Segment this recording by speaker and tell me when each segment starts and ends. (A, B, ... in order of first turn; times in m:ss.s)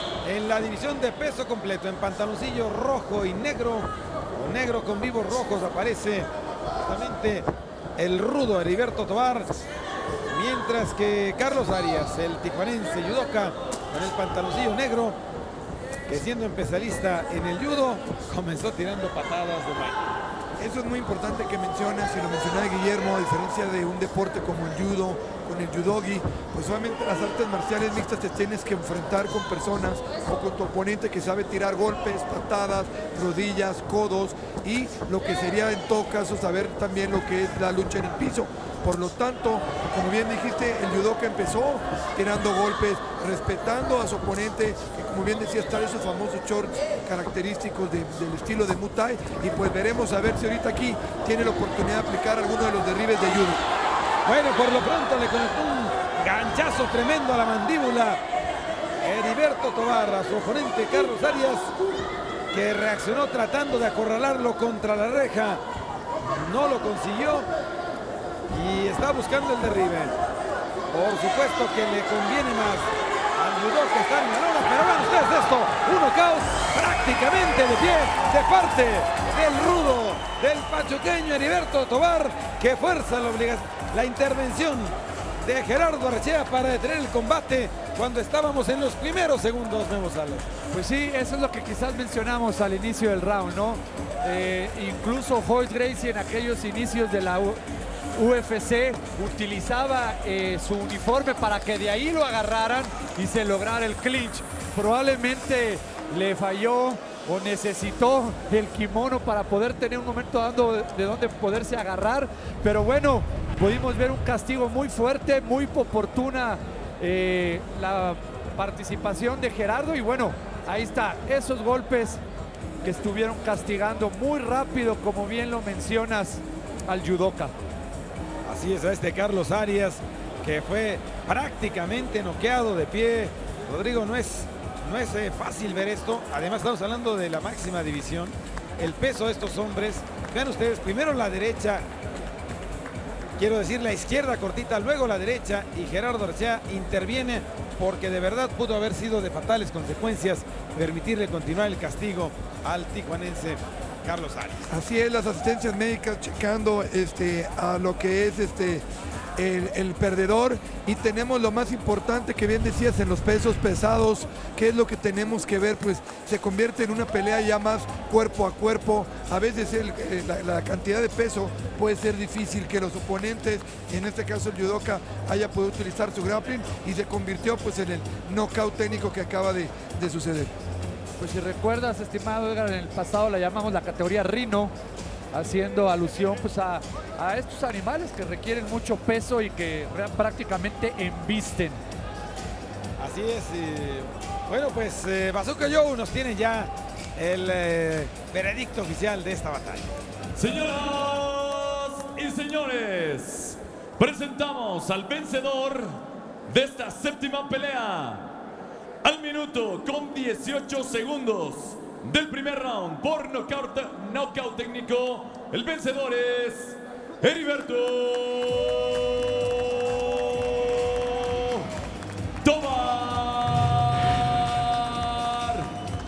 0:00.2-0:06.3 A
0:06.8-0:09.5 A
0:10.3-0:15.2 A
0:16.1-0:20.1 A
0:20.6-0:53.6 B
0:54.2-0:58.2 A
0:59.0-1:01.7 A
1:02.5-1:05.6 A
1:06.2-1:07.5 A
1:08.5-1:10.2 A
1:10.9-1:30.5 A
1:30.7-1:37.6 C
1:38.1-2:02.2 C
2:02.8-2:07.6 C
2:08.4-2:21.9 A
2:23.4-2:34.7 A
2:34.7-2:38.9 B
2:39.4-3:00.5 B
3:01.2-3:04.7 C
3:05.3-3:11.8 C
3:13.0-3:20.0 A
3:20.4-3:28.4 D
3:29.0-3:41.7 D
3:42.4-3:45.7 D